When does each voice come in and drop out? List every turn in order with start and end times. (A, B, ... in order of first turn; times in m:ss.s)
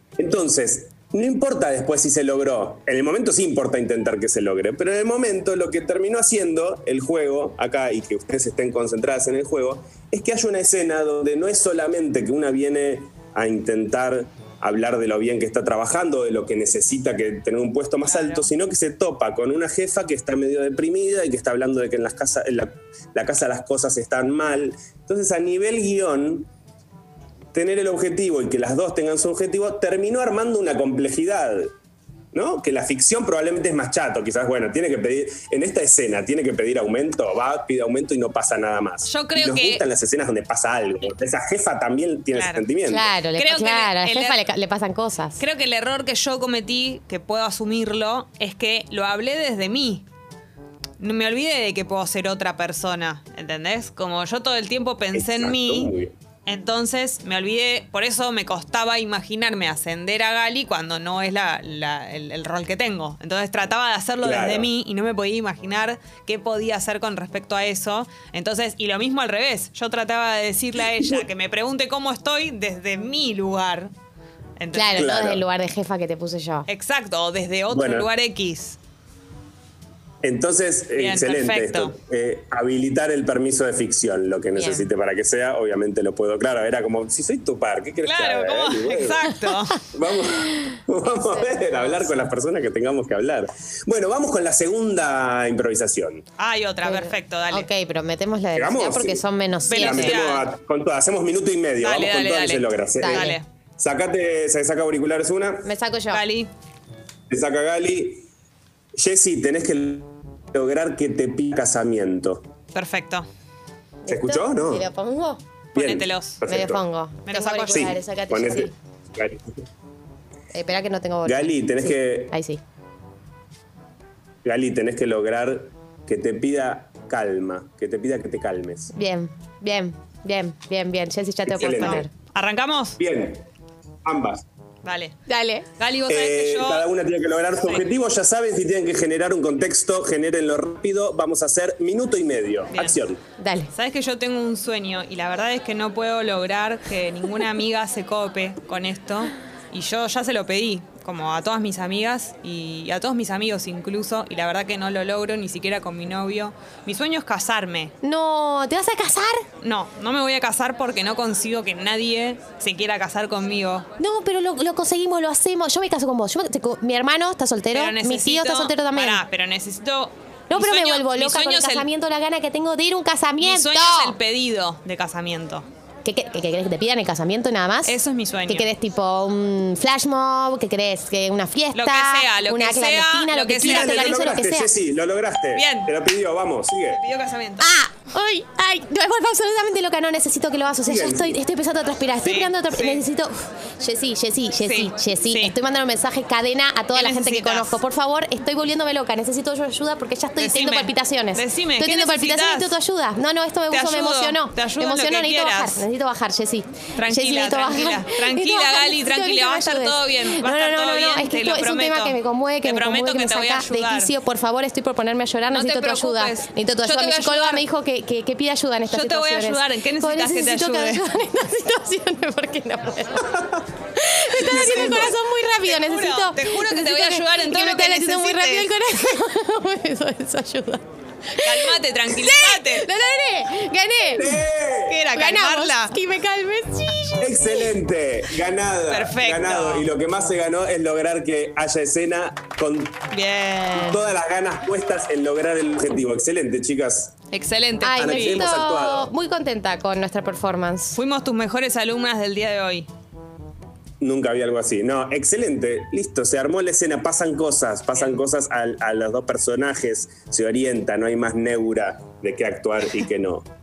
0:00.2-0:26.5 A
0:18.1-0:18.5 B
0:27.5-0:31.7 A
0:32.3-0:43.1 A
0:39.1-0:39.8 B
0:42.3-0:42.7 B
0:42.9-0:45.4 C
0:43.3-0:44.4 B
0:45.4-0:50.0 B
0:51.0-0:55.9 B
0:55.1-0:56.1 A
0:56.4-1:13.9 B
1:04.2-1:04.7 A
1:14.6-1:15.1 B
1:14.7-1:16.7 C
1:14.9-1:15.4 A
1:16.7-1:18.8 B
1:17.7-1:18.1 A
1:20.2-1:36.2 A
1:21.0-1:21.9 B
1:24.6-1:24.9 C
1:28.0-1:29.9 B
1:31.3-1:32.3 C
1:36.4-1:37.7 B
1:36.8-1:40.2 C
1:38.5-1:45.7 A
1:39.7-1:40.5 B
1:41.8-1:43.4 B
1:43.0-1:43.4 C
1:45.6-1:46.2 C
1:46.1-1:46.5 B
1:47.3-1:48.2 A
1:48.9-1:52.5 A
1:52.7-1:53.3 B
1:54.0-1:55.4 C
1:54.1-1:54.8 A
1:55.7-1:56.4 B
1:55.7-1:56.8 A
1:56.5-1:58.7 C
1:57.3-1:57.9 B
1:57.7-1:59.4 A
2:00.5-2:02.6 C
2:01.2-2:02.3 A
2:04.4-2:08.9 A
2:08.9-2:12.1 C
2:11.5-2:12.0 A
2:11.6-2:13.0 B
2:13.0-2:13.4 A
2:14.0-2:14.4 A
2:14.8-2:15.1 B
2:15.3-2:15.6 C
2:15.8-2:16.8 B
2:16.1-2:23.2 A
2:22.7-2:23.0 B
2:23.4-2:23.7 C
2:23.7-2:37.9 B
2:38.0-2:39.4 C
2:39.6-2:43.9 B
2:44.0-2:49.2 C
2:47.7-2:51.9 B
2:50.5-2:54.2 C
2:53.4-2:55.7 B
2:56.0-2:57.9 C
2:57.8-2:58.7 B
2:58.5-3:04.7 C
3:01.7-3:04.3 B
3:03.6-3:07.0 A
3:05.5-3:05.9 B
3:06.9-3:07.7 B
3:07.6-3:54.4 C
3:10.8-3:11.4 A
3:12.2-3:13.0 B
3:14.6-3:15.5 B
3:16.9-3:17.8 B
3:20.4-3:22.8 B
3:23.7-3:25.8 B
3:27.0-3:34.1 B
3:35.5-3:37.6 B
3:38.9-3:41.0 B
3:44.3-3:48.7 B
3:51.4-3:52.9 B
3:54.1-3:55.0 A
3:54.8-3:55.9 B
3:55.1-3:57.7 C
3:57.2-4:03.1 A
3:58.9-3:59.9 B
4:03.1-4:04.0 B
4:03.7-4:07.2 A
4:07.3-4:08.6 B
4:07.8-4:11.0 C
4:08.0-4:09.1 A
4:11.0-4:12.9 B
4:14.0-4:23.5 A